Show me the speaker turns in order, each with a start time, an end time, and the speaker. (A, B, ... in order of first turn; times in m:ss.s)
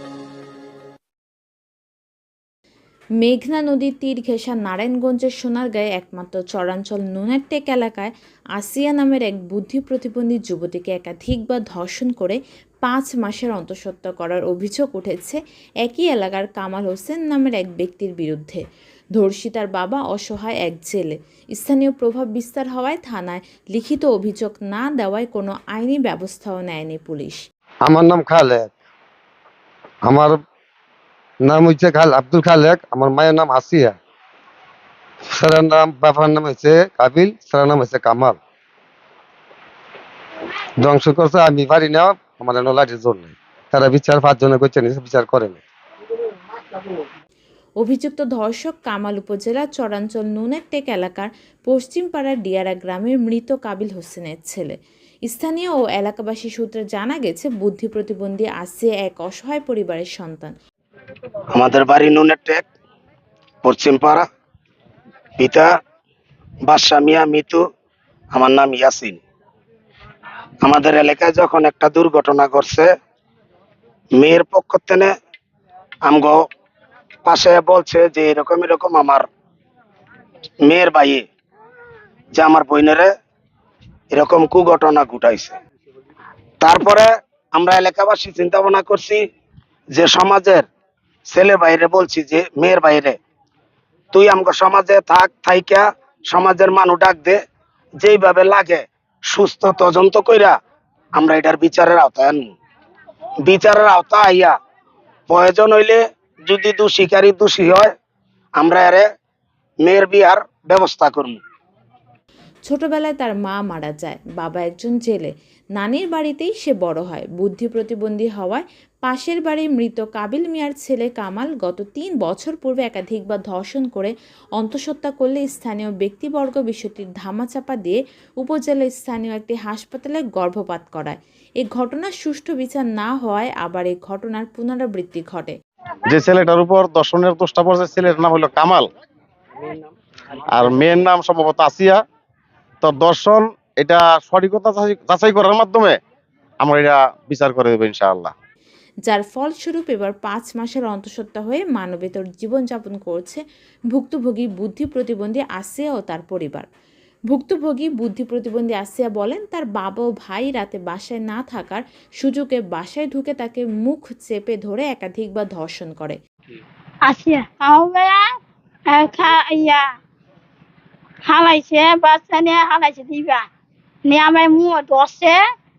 0:03.2-0:18.6 A
0:19.2-0:27.4 A
0:27.8-0:28.7 B
0:30.0-0:30.4 B
0:31.4-0:34.0 B
0:35.3-0:38.4 B
0:40.8-0:45.6 B
0:47.8-0:54.7 A
0:55.3-1:00.5 A
1:01.5-1:02.6 C
1:03.6-1:04.2 C
1:05.4-1:05.7 C
1:06.6-1:07.6 C
1:08.3-1:09.2 C
1:10.6-1:12.9 C
1:14.2-1:15.1 C
1:16.0-1:16.4 C
1:17.2-1:19.3 C
1:20.6-1:21.2 C
1:22.3-1:23.1 C
1:24.1-1:25.5 C
1:26.6-1:29.2 C
1:29.9-1:30.6 C
1:31.3-1:33.2 C
1:34.1-1:37.4 C
1:38.0-1:40.6 C
1:41.2-1:42.5 C
1:43.4-1:44.5 C
1:45.3-1:47.9 C
1:48.6-1:49.0 C
1:49.8-1:51.4 C
1:52.6-2:15.5 A
2:16.1-2:18.9 D
2:20.5-2:22.0 D
2:22.8-2:26.0 D
2:26.6-2:28.3 D
2:29.0-2:36.6 A
2:37.3-2:46.2 A
2:47.0-2:48.3 E
2:48.9-2:49.9 E
2:51.2-2:53.5 E
2:54.0-2:55.4 E